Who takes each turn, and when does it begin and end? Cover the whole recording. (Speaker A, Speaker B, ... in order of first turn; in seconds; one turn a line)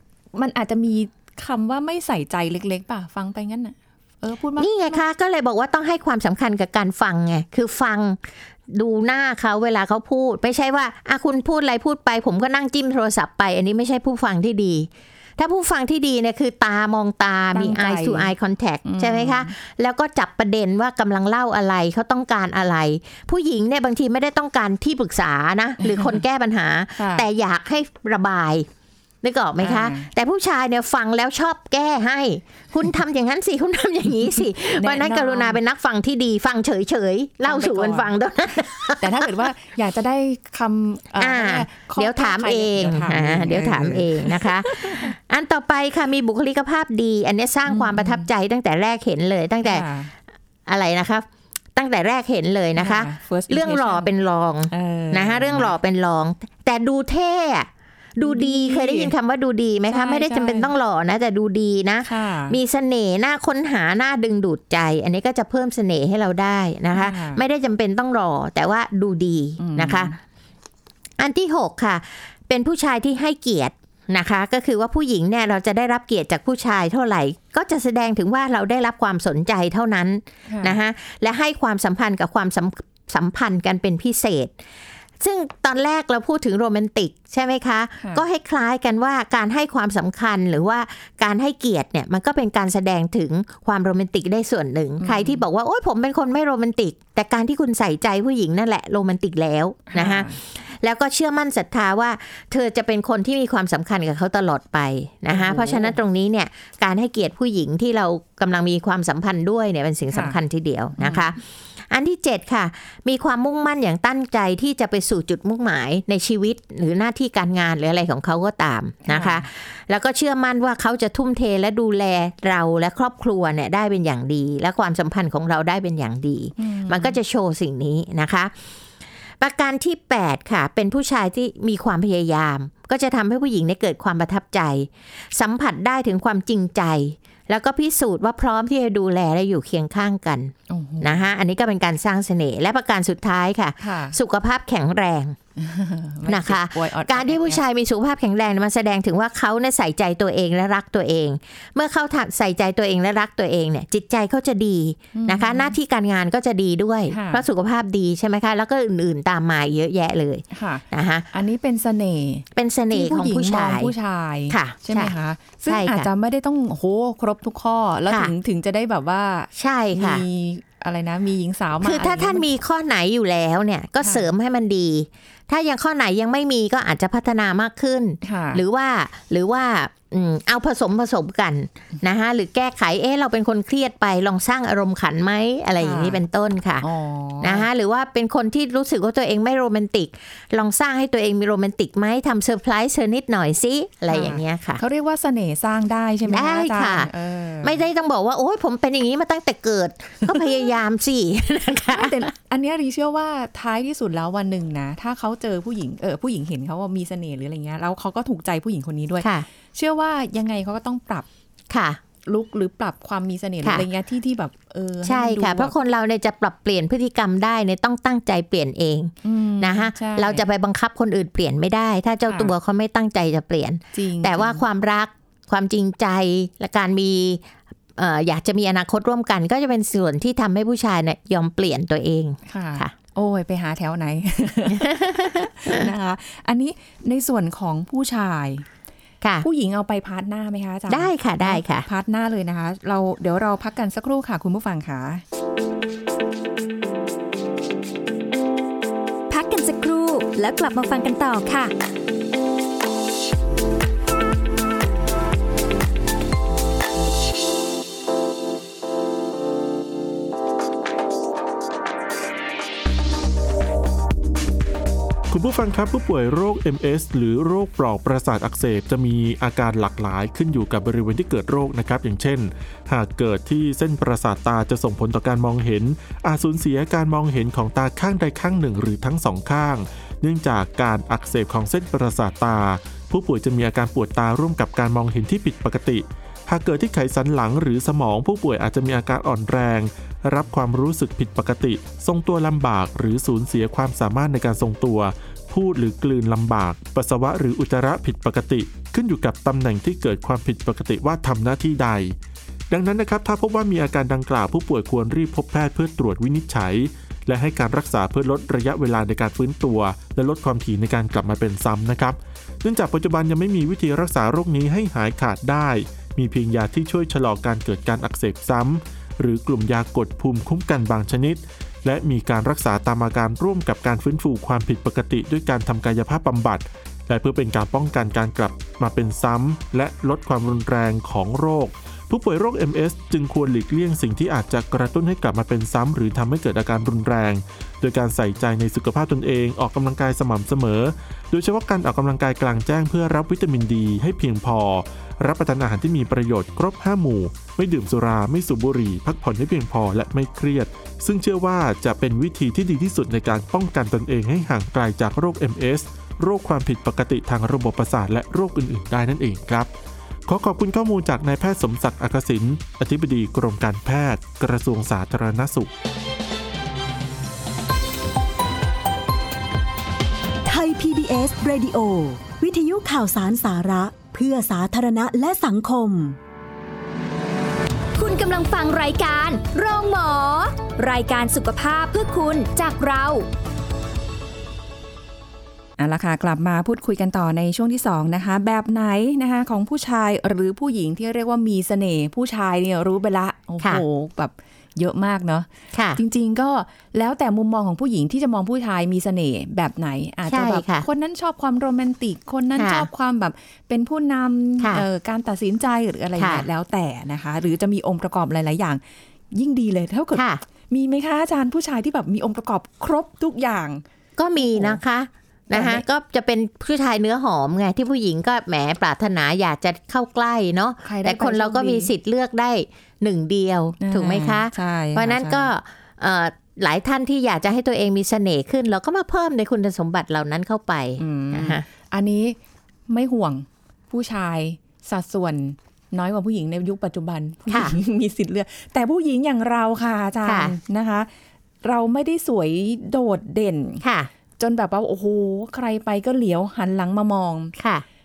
Speaker A: 0.3-5.0
Speaker B: 4.6-28.7
Speaker A: 17.5-18.3
Speaker A: 18.9-19.5
Speaker A: 25.8-26.2
Speaker A: 27.0-27.3
Speaker B: 29.2-39.3
Speaker A: 29.6-30.1
Speaker A: 34.8-35.6
Speaker A: 37.5-38.1
Speaker A: 39.0-45.1
Speaker B: 41.2-49.9
Speaker A: 47.7-48.3
Speaker A: 49.6-50.1
Speaker B: 50.7-70.1
Speaker A: 52.8-54.1
Speaker A: 54.7-55.8
Speaker A: 58.2-59.1
Speaker A: 59.9-60.7
Speaker A: 62.0-62.6
Speaker A: 66.9-67.4
Speaker A: 69.6-70.2
Speaker B: 71.2-84.5
Speaker A: 80.5-80.8
Speaker B: 85.2-128.5
Speaker A: 95.0-95.4
Speaker A: 99.9-100.4
Speaker A: 105.3-106.0
Speaker A: 110.1-110.4
Speaker A: 111.0-111.3
Speaker A: 119.1-119.5
Speaker A: 126.6-127.2
Speaker B: 129.4-145.4
Speaker A: 140.7-141.2
Speaker A: 143.8-144.2
Speaker A: 145.6-147.6
Speaker B: 146.3-161.3
Speaker A: 155.1-155.8
Speaker A: 157.1-157.4
Speaker A: 160.5-172.5
Speaker B: 162.6-163.9
Speaker B: 164.5-165.1
Speaker B: 165.7-166.1
Speaker B: 169.6-170.2
Speaker B: 171.8-186.9
Speaker A: 174.0-174.3
Speaker A: 178.2-178.6
Speaker A: 185.8-186.2
Speaker A: 186.8-187.7
Speaker B: 187.4-194.8
Speaker A: 194.1-197.9
Speaker B: 196.3-197.1
Speaker B: 197.6-202.3
Speaker A: 200.3-200.5
Speaker A: 201.9-211.3
Speaker B: 209.2-209.5
Speaker B: 211.7-212.0
Speaker A: 212.3-215.8
Speaker B: 215.0-227.4
Speaker A: 219.2-220.4
Speaker A: 222.2-222.5
Speaker A: 223.9-224.6
Speaker B: 228.0-232.9
Speaker A: 232.5-238.7
Speaker B: 234.9-235.8
Speaker B: 239.2-239.5
Speaker A: 239.4-245.2
Speaker B: 240.9-241.9
Speaker C: 249.3-251.7
Speaker D: 265.3-302.1
Speaker D: 302.7-359.7
Speaker D: 360.3-365.7
Speaker E: 370.4-376.2
Speaker C: 377.9-383.3
Speaker A: 385.8-413.8
Speaker B: 395.7-396.0
Speaker B: 400.3-400.9
Speaker B: 402.6-402.9
Speaker B: 404.6-404.9
Speaker B: 406.2-406.5
Speaker B: 410.1-410.4
Speaker B: 414.2-431.6
Speaker A: 414.4-414.8
Speaker A: 415.5-415.8
Speaker A: 420.8-421.9
Speaker A: 423.8-425.5
Speaker A: 431.0-441.1
Speaker B: 437.5-437.8
Speaker B: 440.2-440.5
Speaker A: 441.6-443.8
Speaker B: 443.8-444.1
Speaker A: 444.4-447.5
Speaker B: 447.6-447.9